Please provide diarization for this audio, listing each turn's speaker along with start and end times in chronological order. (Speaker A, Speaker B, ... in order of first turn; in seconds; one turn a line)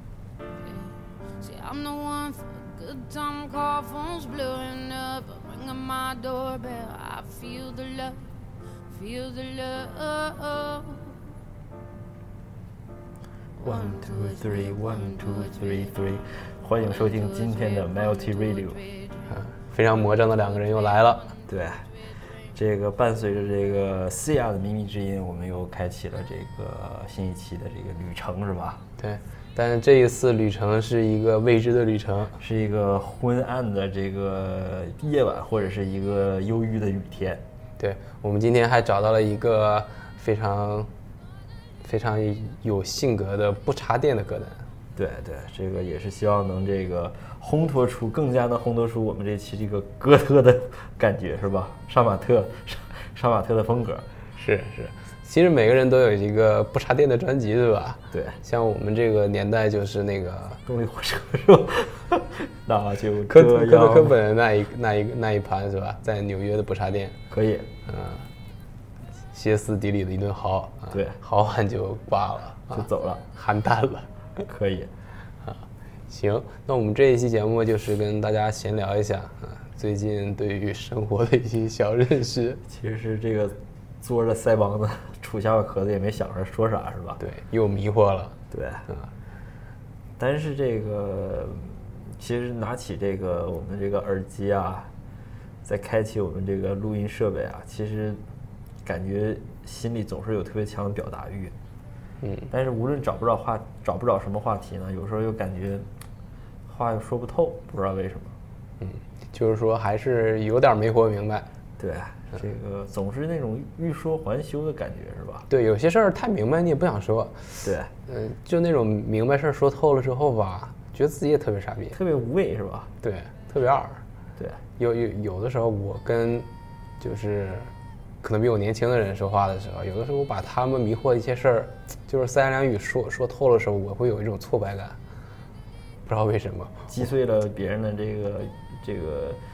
Speaker A: 0.6-8.2
Speaker A: 8.9-11.2
Speaker B: 13.6-18.8
Speaker A: 13.6-15.1
Speaker A: 17.5-18.0
Speaker A: 18.6-19.2
Speaker C: 19.3-21.3
Speaker B: 21.5-21.8
Speaker B: 22.5-28.8
Speaker C: 29.0-32.4
Speaker B: 32.4-37.4
Speaker C: 37.8-40.9
Speaker C: 41.8-44.6
Speaker B: 45.0-54.1
Speaker C: 54.4-60.6
Speaker B: 58.1-58.4
Speaker B: 60.7-64.2
Speaker C: 63.3-67.2
Speaker B: 67.3-67.7
Speaker C: 67.9-68.3
Speaker C: 69.3-74.1
Speaker B: 70.9-71.2
Speaker B: 72.7-73.2
Speaker B: 74.4-74.9
Speaker C: 76.1-82.6
Speaker B: 82.7-87.2
Speaker C: 87.2-88.4
Speaker B: 88.5-88.9
Speaker B: 90.2-94.9
Speaker B: 95.6-98.2
Speaker B: 98.8-101.5
Speaker C: 102.2-102.5
Speaker B: 102.5-105.9
Speaker B: 106.7-108.3
Speaker C: 108.8-111.5
Speaker B: 111.8-115.5
Speaker C: 115.5-122.0
Speaker B: 117.6-117.9
Speaker B: 121.9-122.9
Speaker C: 123.0-124.0
Speaker C: 124.8-126.5
Speaker C: 127.0-127.7
Speaker C: 128.2-135.0
Speaker C: 136.1-136.9
Speaker B: 136.9-139.4